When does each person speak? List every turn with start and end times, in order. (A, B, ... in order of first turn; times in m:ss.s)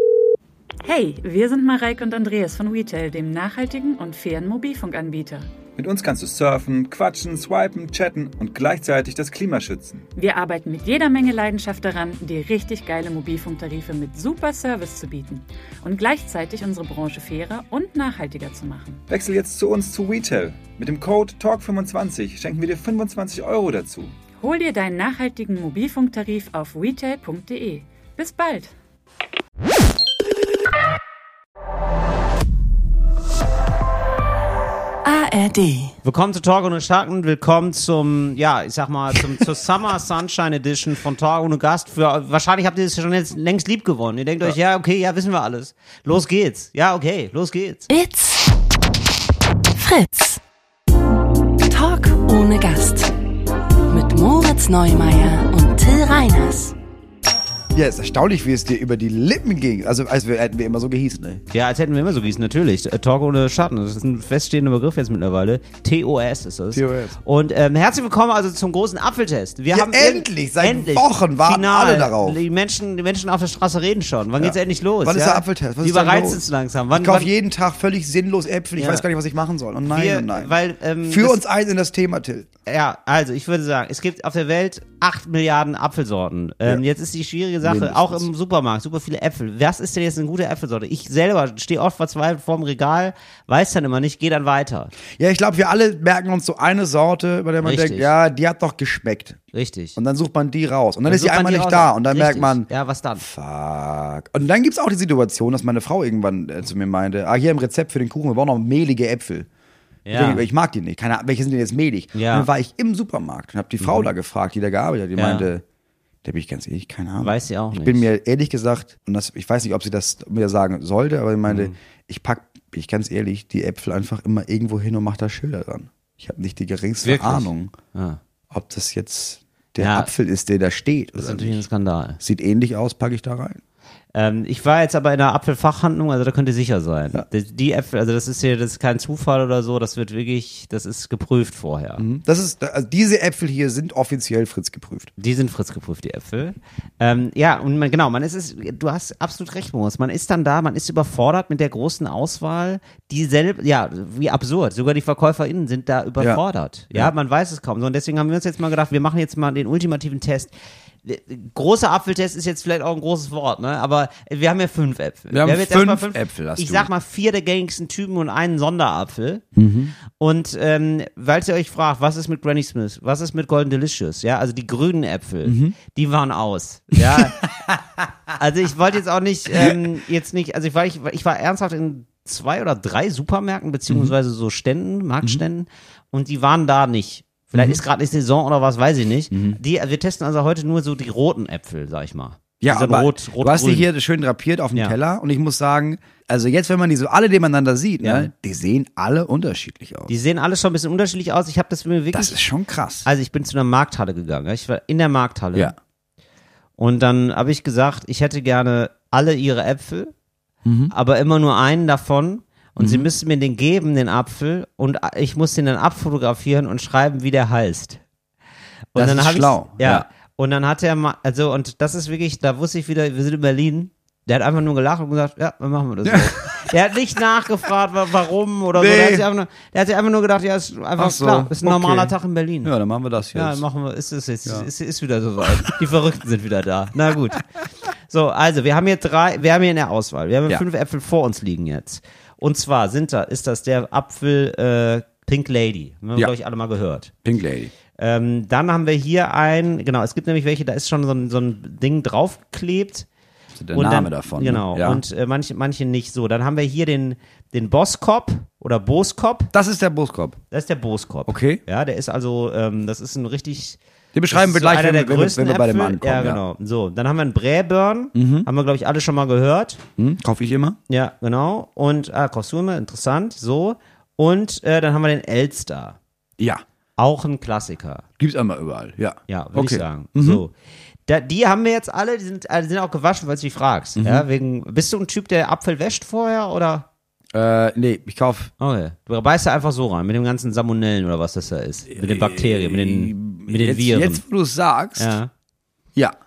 0:00.8-0:05.5 A
0:05.8-0:10.0 B
0:06.0-0:06.4 C
0:10.2-0:19.0 A
0:19.1-0:24.1 B
0:19.1-0:19.4 C
0:24.4-0:28.7 A
0:35.0-0:36.0 D
0:36.0-0:47.9 E
0:47.9-0:48.5 D
0:49.7-0:50.4 D
0:51.7-0:53.1 D
0:53.9-0:56.8 D
0:57.7-1:01.4 C
1:01.5-1:17.3 E
1:06.7-1:07.2 C
1:09.7-1:12.4 C
1:14.4-1:22.5 C
1:18.8-1:19.1 E
1:19.9-1:21.4 E
1:22.7-1:34.9 E
1:27.6-1:28.3 C
1:35.1-1:39.4 C
1:37.6-1:38.1 E
1:39.5-1:40.0 E
1:40.0-1:42.7 C
1:41.1-1:43.3 E
1:43.2-1:49.5 C
1:50.1-1:50.4 E
1:50.1-1:55.6 C
1:52.2-1:52.5 E
1:53.8-1:54.1 E
1:55.2-1:55.5 E
1:56.2-2:07.7 C
1:57.2-1:58.1 E
2:01.5-2:01.8 E
2:07.0-2:08.2 E
2:08.5-2:11.6 C
2:09.8-2:10.1 E
2:11.2-2:12.2 E
2:12.2-2:13.6 C
2:14.1-2:22.0 E
2:22.0-2:25.1 C
2:25.2-2:40.5 E
2:41.0-2:49.4 E
2:45.3-2:46.9 C
2:49.6-2:49.9 C
2:50.1-2:57.5 E
2:55.4-2:55.8 C
2:57.0-2:57.8 C
2:58.4-3:13.9 E
2:59.5-2:59.8 C
3:03.9-3:04.1 C
3:07.6-3:07.8 C
3:09.3-3:09.6 C
3:12.6-3:20.1 C
3:18.0-3:18.3 E
3:20.1-3:22.4 E
3:22.1-3:23.1 C
3:23.0-3:25.8 E
3:26.8-3:30.1 E
3:30.6-3:30.9 C
3:30.9-3:38.0 E
3:32.8-3:33.1 C
3:38.9-3:57.4 E
3:39.0-3:40.1 C
3:46.0-3:46.8 C
3:48.8-3:49.3 C
3:51.0-3:53.6 C
3:58.1-4:07.1 E
4:07.2-4:07.7 C
4:08.0-4:13.1 E
4:13.6-4:15.0 C
4:13.7-4:19.5 E
4:19.5-4:20.4 C
4:20.5-4:23.8 E
4:21.3-4:21.6 C
4:24.1-4:26.4 C
4:24.3-4:29.8 E
4:28.2-4:28.5 C
4:30.0-4:30.8 C
4:30.9-4:36.0 E
4:36.4-4:36.6 C
4:37.0-4:38.0 E
4:38.2-4:40.4 C
4:39.3-4:40.5 E
4:41.1-4:46.9 E
4:44.0-4:44.3 C
4:47.3-4:48.5 C
4:48.6-4:54.2 E
4:51.9-4:55.1 C
4:55.0-4:55.3 E